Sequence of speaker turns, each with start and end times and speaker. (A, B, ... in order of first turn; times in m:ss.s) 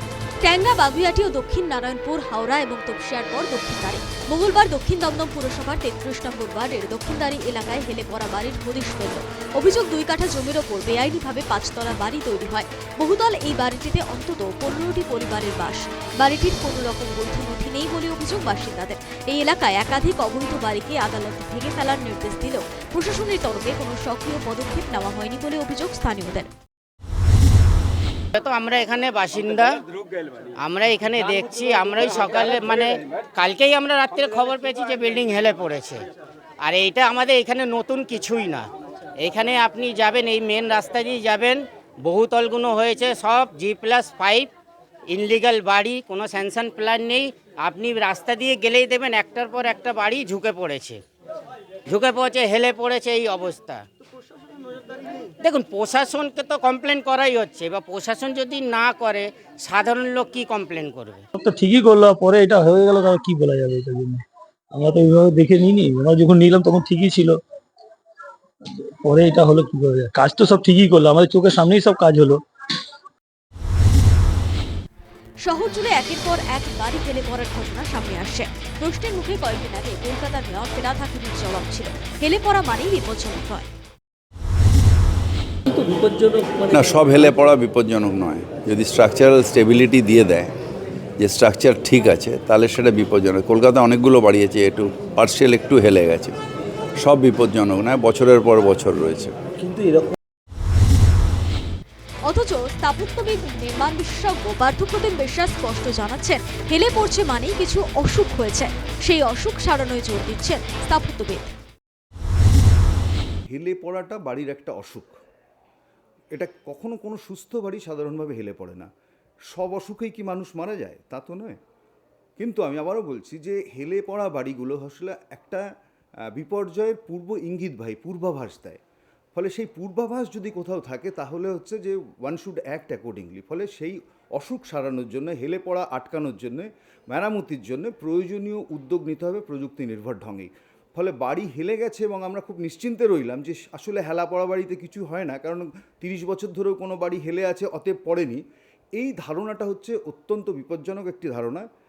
0:00.4-0:26.5 A
0:28.4-0:29.8 B
0:30.6-0:36.0 B
0:36.6-0:44.5 B
0:45.1-0:51.0 B
0:51.9-0:53.8 B
0:55.4-1:01.2 B
1:01.3-1:07.4 C
1:08.6-1:12.4 C
1:15.4-1:23.7 A
1:25.7-1:26.5 C
1:26.6-1:30.5 D
1:31.2-1:36.3 D
1:37.0-1:39.3 D
1:42.2-1:51.4 A
1:53.5-1:55.1 E
1:56.3-1:58.9 E
1:59.5-2:01.6 E
2:02.4-2:05.6 E
2:06.3-2:08.8 E
2:09.4-2:28.4 E
2:29.0-2:31.6 E